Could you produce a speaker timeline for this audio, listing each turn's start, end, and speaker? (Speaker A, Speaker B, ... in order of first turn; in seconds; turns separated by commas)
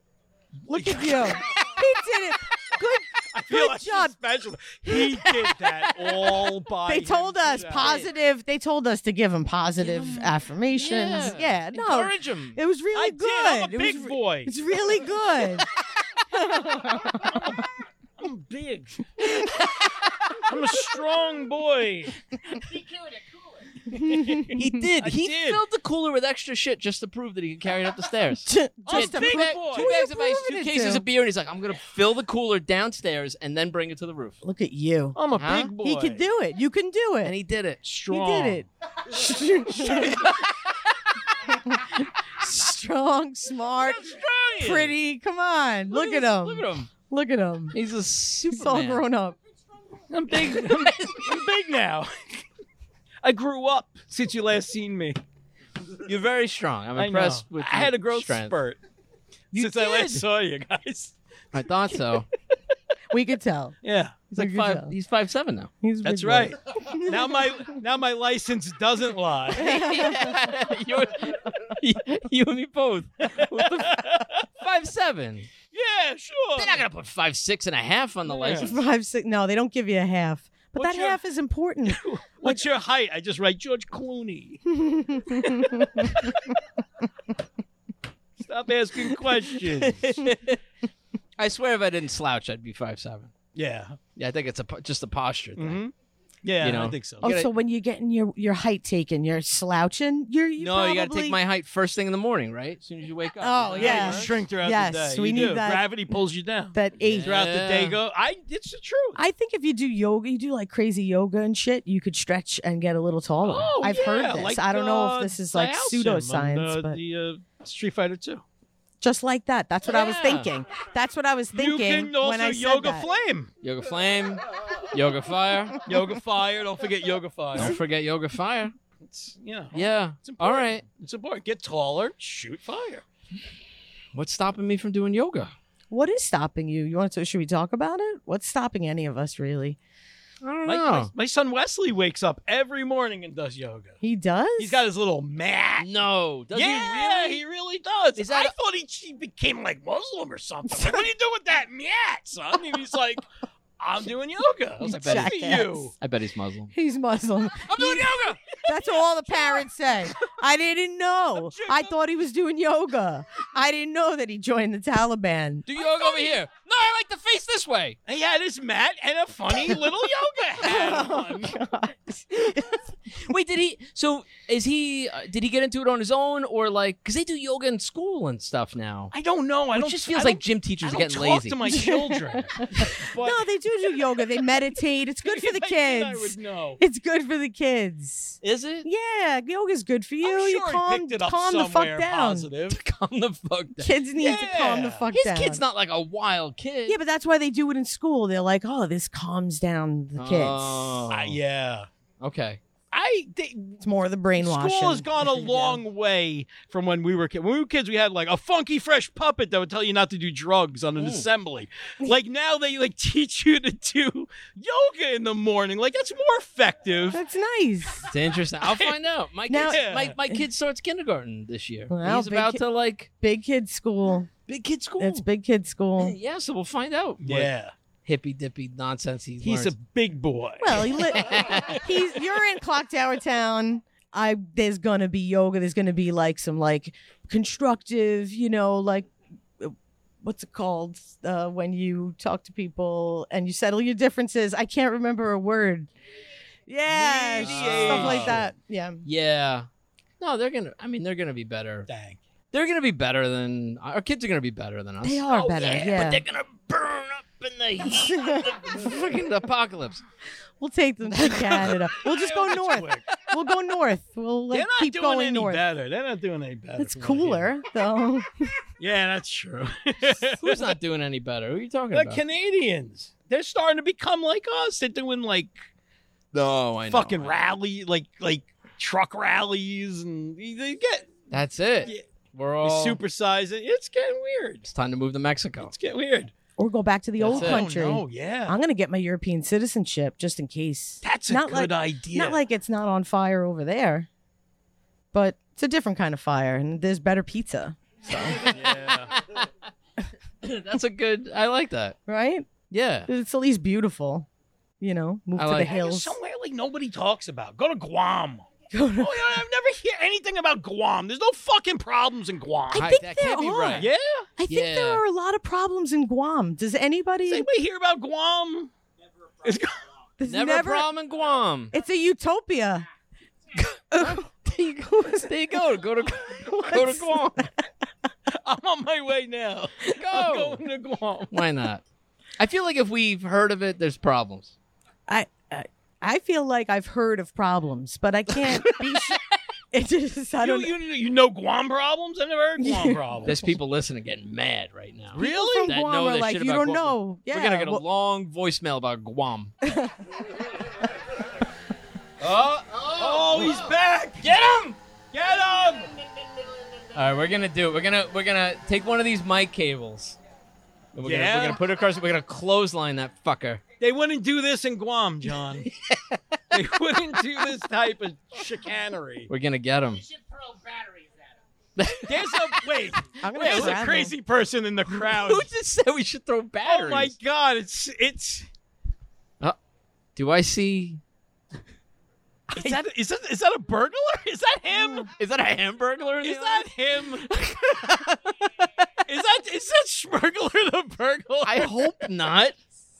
Speaker A: 0.7-1.4, Speaker B: 0.7-4.1, Speaker A: 3.3-8.0, Speaker B: 4.8-15.7, Speaker C: 7.6-8.1, Speaker C: 9.8-12.6, Speaker A: 12.9-14.6, Speaker B: 16.4-17.4, Speaker A: 16.7-17.6, Speaker A: 18.2-19.3, Speaker A: 20.4-22.1, Speaker A: 23.9-25.6, Speaker B: 23.9-24.6, Speaker C: 24.5-34.4, Speaker B: 28.5-31.0, Speaker A: 28.9-29.9, Speaker B: 34.4-35.2, Speaker A: 35.1-36.2, Speaker C: 35.3-35.7, Speaker B: 35.7-37.3, Speaker C: 37.2-37.8, Speaker A: 37.8-38.6, Speaker B: 38.1-40.3, Speaker A: 39.8-40.3, Speaker B: 41.5-47.8, Speaker C: 43.8-44.9, Speaker C: 45.9-46.9, Speaker C: 47.7-49.0, Speaker B: 48.5-49.4, Speaker A: 50.1-52.4, Speaker A: 53.2-55.2, Speaker C: 56.0-58.6, Speaker A: 57.0-58.8, Speaker B: 59.5-60.2, Speaker A: 59.5-61.1, Speaker C: 61.5-62.3, Speaker B: 63.1-63.8, Speaker A: 63.8-64.2, Speaker B: 64.3-64.9, Speaker C: 64.3-65.7, Speaker B: 65.8-67.6, Speaker A: 66.0-69.8, Speaker C: 69.5-74.1, Speaker B: 69.6-70.4, Speaker A: 73.2-74.5, Speaker C: 74.6-75.5, Speaker A: 75.7-76.8, Speaker C: 76.5-78.8, Speaker A: 78.4-78.7, Speaker B: 78.4-82.6, Speaker A: 80.8-81.2, Speaker A: 81.8-84.6, Speaker B: 84.7-86.3, Speaker A: 88.4-90.1, Speaker C: 89.7-90.6, Speaker C: 91.4-93.3, Speaker A: 93.5-94.0, Speaker C: 94.2-95.8, Speaker A: 95.5-95.9, Speaker A: 96.4-97.2, Speaker C: 96.6-97.5, Speaker B: 97.2-101.4, Speaker C: 100.6-104.3, Speaker B: 103.4-105.9, Speaker A: 103.7-109.2, Speaker B: 106.7-107.3, Speaker C: 107.0-108.0, Speaker B: 109.2-117.0, Speaker A: 113.4-118.4, Speaker B: 119.0-123.1, Speaker C: 119.8-120.5, Speaker A: 121.5-123.5, Speaker C: 123.6-125.8, Speaker A: 125.8-127.8, Speaker C: 127.5-128.7, Speaker A: 129.0-133.0, Speaker C: 129.7-130.8, Speaker C: 134.1-135.5, Speaker B: 135.9-139.8, Speaker C: 140.4-141.1, Speaker A: 140.7-144.0, Speaker B: 144.0-144.8, Speaker A: 144.6-145.9, Speaker C: 145.8-147.4, Speaker A: 146.5-153.2, Speaker C: 148.2-148.5, Speaker A: 153.8-155.9, Speaker B: 154.8-155.9, Speaker C: 154.8-156.7, Speaker B: 156.7-165.7, Speaker A: 157.7-159.7, Speaker A: 161.3-162.0, Speaker C: 165.7-168.0, Speaker A: 168.1-171.5, Speaker B: 170.6-172.8, Speaker C: 173.1-179.1, Speaker A: 179.1-183.4, Speaker C: 179.7-181.6, Speaker B: 181.6-192.5, Speaker A: 185.2-186.8, Speaker C: 188.4-188.9, Speaker A: 190.2-192.8, Speaker C: 192.7-193.9, Speaker B: 193.8-195.6, Speaker A: 194.2-195.1, Speaker C: 195.1-197.0, Speaker B: 196.9-201.1, Speaker C: 200.2-201.4, Speaker A: 201.1-201.9, Speaker C: 202.2-202.6, Speaker A: 202.9-203.8, Speaker B: 203.8-205.8, Speaker A: 204.3-217.2, Speaker C: 211.0-211.2, Speaker B: 217.1-218.1, Speaker C: 218.1-223.1, Speaker A: 218.6-219.0, Speaker B: 219.5-219.8, Speaker A: 219.6-220.2, Speaker B: 221.9-222.6, Speaker B: 223.2-224.3, Speaker C: 224.5-225.2, Speaker B: 225.0-226.2, Speaker C: 226.0-227.5, Speaker A: 227.2-227.7, Speaker C: 228.0-229.7, Speaker A: 229.4-230.9, Speaker B: 230.6-239.1, Speaker C: 231.0-231.8, Speaker B: 239.6-245.9, Speaker B: 246.7-249.0, Speaker A: 246.9-248.4, Speaker C: 247.3-248.5, Speaker C: 249.0-249.7, Speaker C: 250.2-251.9, Speaker A: 251.9-252.2, Speaker C: 252.5-260.0, Speaker B: 255.0-256.2, Speaker B: 258.0-258.4, Speaker B: 260.6-265.6, Speaker C: 261.1-261.8, Speaker A: 261.9-263.1, Speaker A: 264.5-267.5, Speaker B: 266.8-268.5, Speaker A: 268.8-270.8, Speaker C: 270.3-272.2, Speaker A: 271.9-275.5, Speaker C: 276.3-277.4, Speaker A: 276.9-281.2, Speaker C: 281.3-283.0, Speaker A: 282.6-284.6, Speaker C: 284.7-285.7, Speaker A: 285.6-286.3, Speaker B: 286.6-294.1, Speaker C: 287.2-287.6, Speaker A: 287.2-288.6, Speaker A: 291.0-292.4, Speaker B: 295.1-298.5, Speaker A: 298.4-299.1, Speaker C: 298.6-299.5, Speaker C: 300.4-302.0, Speaker B: 302.1-302.5, Speaker C: 302.7-303.1, Speaker B: 303.1-304.3, Speaker B: 304.8-306.1, Speaker C: 305.4-305.7, Speaker A: 305.6-308.4, Speaker B: 308.7-309.4, Speaker A: 309.0-312.9, Speaker C: 312.7-313.9, Speaker B: 312.7-313.9, Speaker A: 313.8-314.3, Speaker B: 314.4-317.5, Speaker C: 314.5-315.0, Speaker A: 317.3-318.7, Speaker A: 319.4-319.8, Speaker B: 320.2-320.9, Speaker C: 320.3-321.7, Speaker B: 321.7-322.9, Speaker B: 323.9-325.4, Speaker C: 325.2-327.4, Speaker B: 326.4-327.6, Speaker A: 328.3-331.3, Speaker C: 330.0-330.6, Speaker C: 331.3-331.8, Speaker C: 332.4-334.5, Speaker B: 335.1-339.2, Speaker B: 339.7-340.7, Speaker A: 340.4-343.4, Speaker B: 342.6-343.0, Speaker C: 343.2-349.5, Speaker A: 345.1-345.7, Speaker B: 345.1-347.8, Speaker B: 349.6-349.9, Speaker A: 352.2-355.9, Speaker C: 354.2-354.6, Speaker C: 356.9-360.2, Speaker C: 360.9-363.6, Speaker A: 361.0-361.6, Speaker A: 363.8-365.7, Speaker C: 365.6-366.6, Speaker A: 366.5-369.3, Speaker C: 369.3-370.1, Speaker C: 371.8-372.8, Speaker A: 372.0-375.5, Speaker B: 373.2-374.1, Speaker C: 373.3-373.8, Speaker C: 374.9-377.1, Speaker A: 376.6-378.5, Speaker C: 380.1-381.0, Speaker A: 382.5-385.1, Speaker C: 385.1-388.6, Speaker A: 386.2-387.3, Speaker A: 389.1-391.9, Speaker C: 391.4-392.6